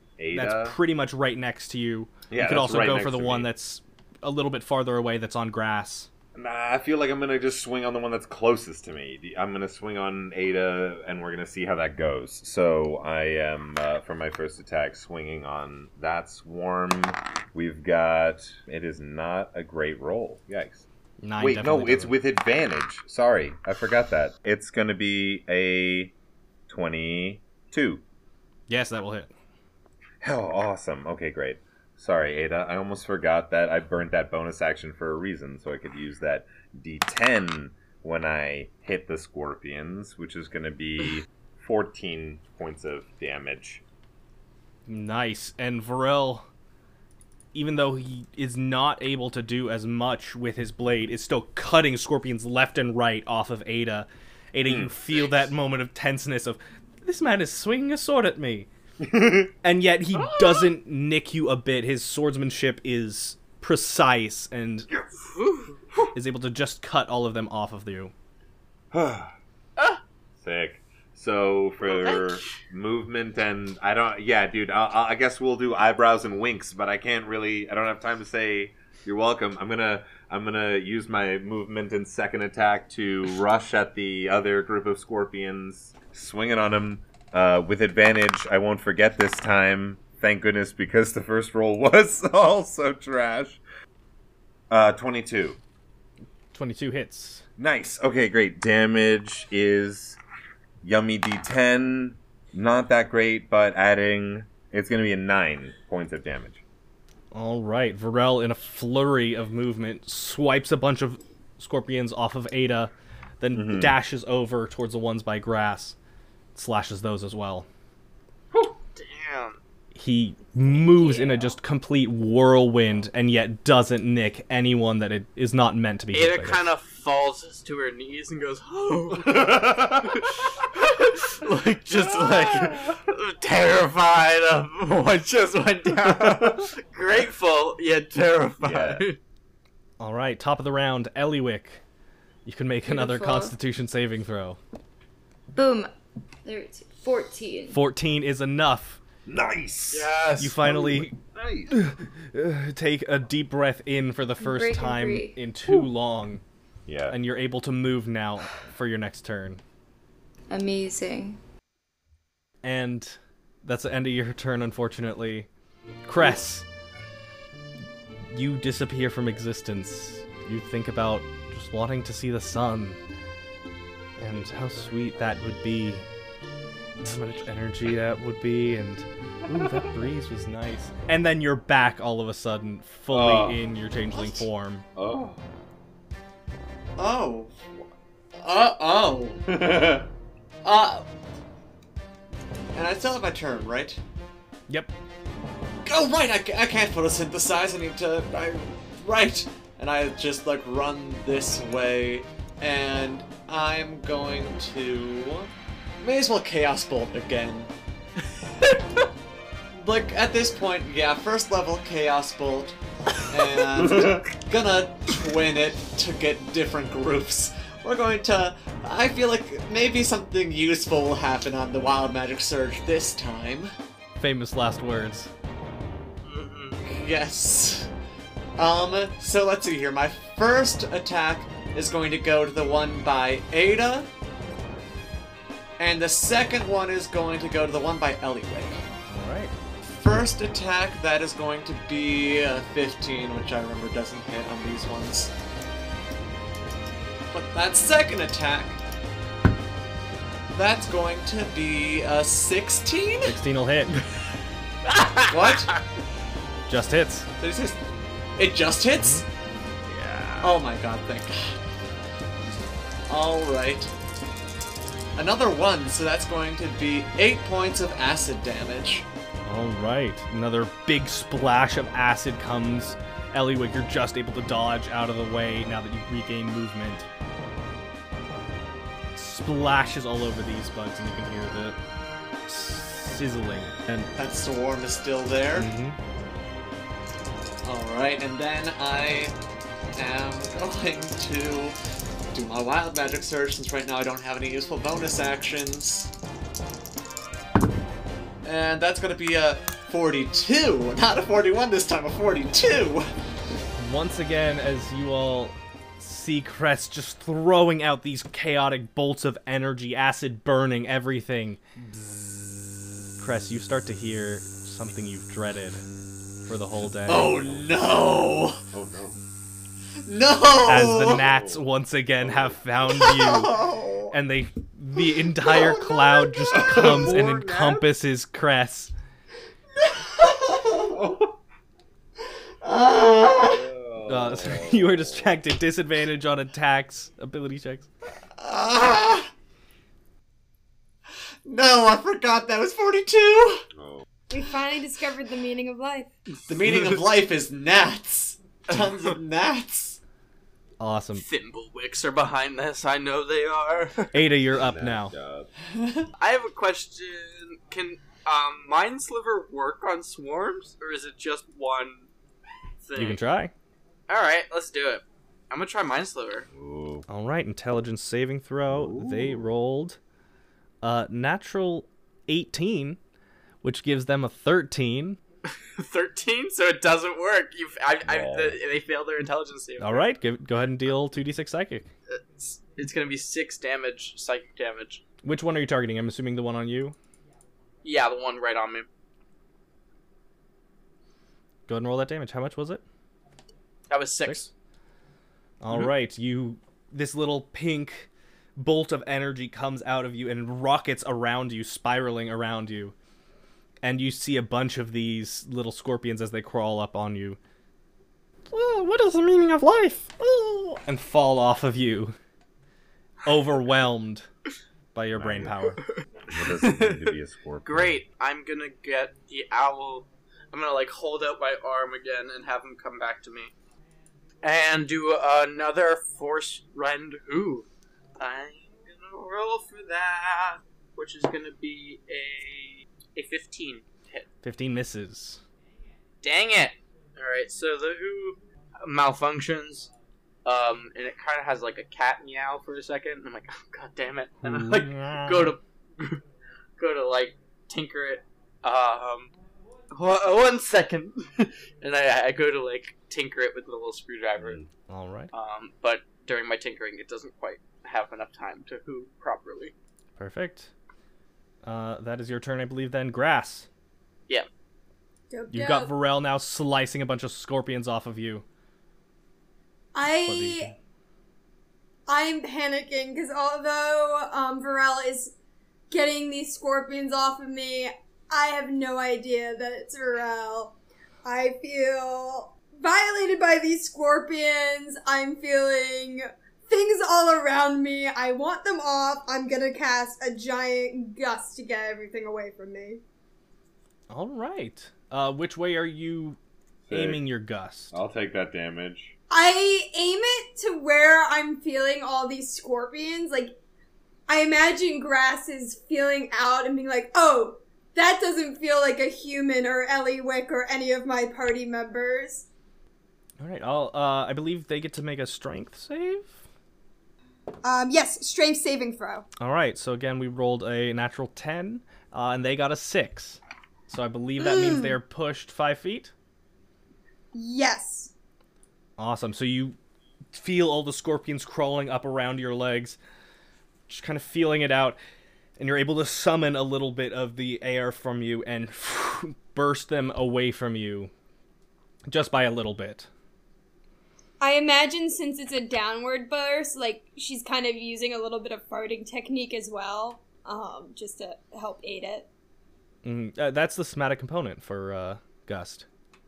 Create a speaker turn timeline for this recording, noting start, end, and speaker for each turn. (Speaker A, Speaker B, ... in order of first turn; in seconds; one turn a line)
Speaker A: 0.2-0.8
Speaker B: 0.3-6.1
Speaker A: 2.3-3.5
Speaker A: 6.3-20.8
Speaker B: 21.2-22.1
Speaker A: 21.4-26.1
Speaker A: 26.7-28.0
Speaker B: 28.7-29.3
Speaker A: 30.2-43.8
Speaker B: 44.9-46.5
Speaker B: 47.5-58.7
Speaker A: 54.6-54.9
Speaker A: 59.0-59.5
Speaker B: 59.6-64.9
Speaker C: 60.1-60.7
Speaker C: 65.3-65.8
Speaker B: 66.1-68.1
Speaker A: 68.9-69.3
Speaker A: 70.4-93.6
Speaker C: 71.8-72.5
Speaker A: 94.7-95.6
Speaker B: 96.5-97.4
Speaker A: 97.6-100.2
Speaker A: 100.8-106.6
Speaker B: 107.3-116.0
Speaker A: 113.5-114.0
Speaker B: 116.5-117.7
Speaker C: 118.9-119.6
Speaker B: 119.9-126.6
Speaker C: 126.1-139.2
Speaker A: 129.2-130.3
Speaker A: 132.0-133.0
Speaker A: 135.9-136.7
Speaker A: 138.6-139.0
Speaker B: 140.0-141.8
Speaker B: 142.4-144.6
Speaker D: 142.9-143.5
Speaker D: 145.5-145.9
Speaker D: 146.4-147.8
Speaker B: 147.7-149.0
Speaker A: 149.2-151.7
Speaker C: 149.9-150.5
Speaker B: 150.4-151.2
Speaker B: 151.7-156.4
Speaker D: 154.4-155.3
Speaker A: 156.8-157.2
Speaker B: 157.1-159.6
Speaker D: 160.5-161.4
Speaker B: 162.6-165.5
Speaker B: 166.1-166.7
Speaker B: 168.3-173.0
Speaker B: 174.2-176.0
Speaker B: 177.0-184.8
Speaker A: 179.5-179.8
Speaker A: 183.1-183.6
Speaker E: 184.1-184.4
Speaker A: 184.9-185.4
Speaker E: 187.0-187.8
Speaker E: 188.4-189.4
Speaker A: 189.5-190.1
Speaker E: 190.6-191.0
Speaker E: 192.7-194.0
Speaker E: 195.8-207.7
Speaker E: 209.7-212.8
Speaker E: 213.3-223.7
Speaker A: 213.8-214.2
Speaker B: 224.2-225.3
Speaker C: 226.2-226.8
Speaker E: 226.8-227.9
Speaker E: 228.6-234.1
Speaker E: 235.8-238.8
Speaker B: 239.1-239.5
Speaker E: 240.0-245.3
Speaker E: 247.3-248.8
Speaker E: 250.5-253.4
Speaker B: 253.2-254.0
Speaker C: 254.9-255.8
Speaker E: 255.3-255.7
Speaker B: 256.7-257.3
Speaker E: 257.4-257.8
Speaker E: 258.4-259.2
Speaker B: 258.9-259.2
Speaker B: 259.9-260.5
Speaker E: 260.4-261.6
Speaker E: 263.1-263.9
Speaker E: 265.1-269.1
Speaker B: 269.5-277.1
Speaker B: 279.1-281.8
Speaker B: 282.5-284.1
Speaker E: 284.1-285.7
Speaker B: 285.5-286.0
Speaker E: 287.6-289.3
Speaker E: 289.9-291.8
Speaker E: 292.3-296.1
Speaker E: 298.4-303.0
Speaker B: 303.8-311.6
Speaker B: 313.2-315.8
Speaker B: 316.4-317.4
Speaker E: 317.1-318.6
Speaker A: 318.7-319.2
Speaker E: 320.1-321.2
Speaker B: 320.7-323.5
Speaker A: 321.3-321.5
Speaker A: 322.2-322.6
Speaker E: 322.9-324.1
Speaker B: 324.1-328.9
Speaker E: 325.4-326.6
Speaker A: 326.5-327.9
Speaker E: 329.8-330.9
Speaker A: 330.8-331.3
Speaker E: 332.6-333.6
Speaker A: 333.4-335.3
Speaker B: 334.1-337.9
Speaker E: 338.4-339.3
Speaker E: 341.4-343.6
Speaker A: 343.7-344.1
Speaker F: 344.3-346.1
Speaker E: 346.4-350.0
Speaker B: 350.8-351.2
Speaker C: 351.1-354.1
Speaker B: 354.1-355.1
Speaker A: 354.6-355.5
Speaker E: 355.7-356.1
Speaker C: 356.2-362.1
Speaker C: 362.8-363.2
Speaker B: 362.9-363.5
Speaker C: 364.1-366.5
Speaker A: 366.5-367.0
Speaker B: 367.1-370.0
Speaker A: 368.7-369.5
Speaker B: 370.8-373.0
Speaker B: 373.6-375.2
Speaker C: 375.5-380.0
Speaker A: 378.0-378.6
Speaker B: 379.8-381.9
Speaker C: 382.1-385.0
Speaker B: 385.2-386.9
Speaker C: 387.8-388.9
Speaker B: 391.7-392.8
Speaker C: 393.9-394.5
Speaker B: 395.6-402.9
Speaker B: 403.8-407.4
Speaker B: 408.5-412.1
Speaker B: 413.2-414.3
Speaker B: 414.9-415.8
Speaker A: 415.1-415.6
Speaker A: 416.3-417.9
Speaker C: 416.5-423.5
Speaker C: 424.4-427.7
Speaker C: 428.2-434.2
Speaker B: 434.4-435.4
Speaker C: 436.2-439.9
Speaker C: 440.4-446.2
Speaker B: 444.4-445.5
Speaker C: 446.8-449.3
Speaker C: 449.9-454.6
Speaker A: 454.4-454.7
Speaker B: 454.9-455.3
Speaker C: 455.3-459.7
Speaker B: 460.2-460.7
Speaker B: 461.6-463.7
Speaker F: 465.3-465.9
Speaker B: 465.5-468.4
Speaker F: 469.9-470.7
Speaker B: 470.2-470.8
Speaker F: 472.1-475.3
Speaker F: 475.9-493.0
Speaker B: 494.1-496.4
Speaker A: 496.9-497.2
Speaker B: 496.9-497.9
Speaker A: 497.9-499.1
Speaker F: 499.3-503.6
Speaker F: 504.3-512.5
Speaker B: 513.4-516.4
Speaker F: 517.6-519.2
Speaker B: 519.4-526.1
Speaker F: 524.4-525.0
Speaker F: 527.3-528.1
Speaker B: 529.0-529.8
Speaker B: 530.3-533.0
Speaker B: 533.9-535.0
Speaker B: 535.6-541.1
Speaker B: 542.1-543.1
Speaker F: 544.4-552.3
Speaker B: 553.0-555.9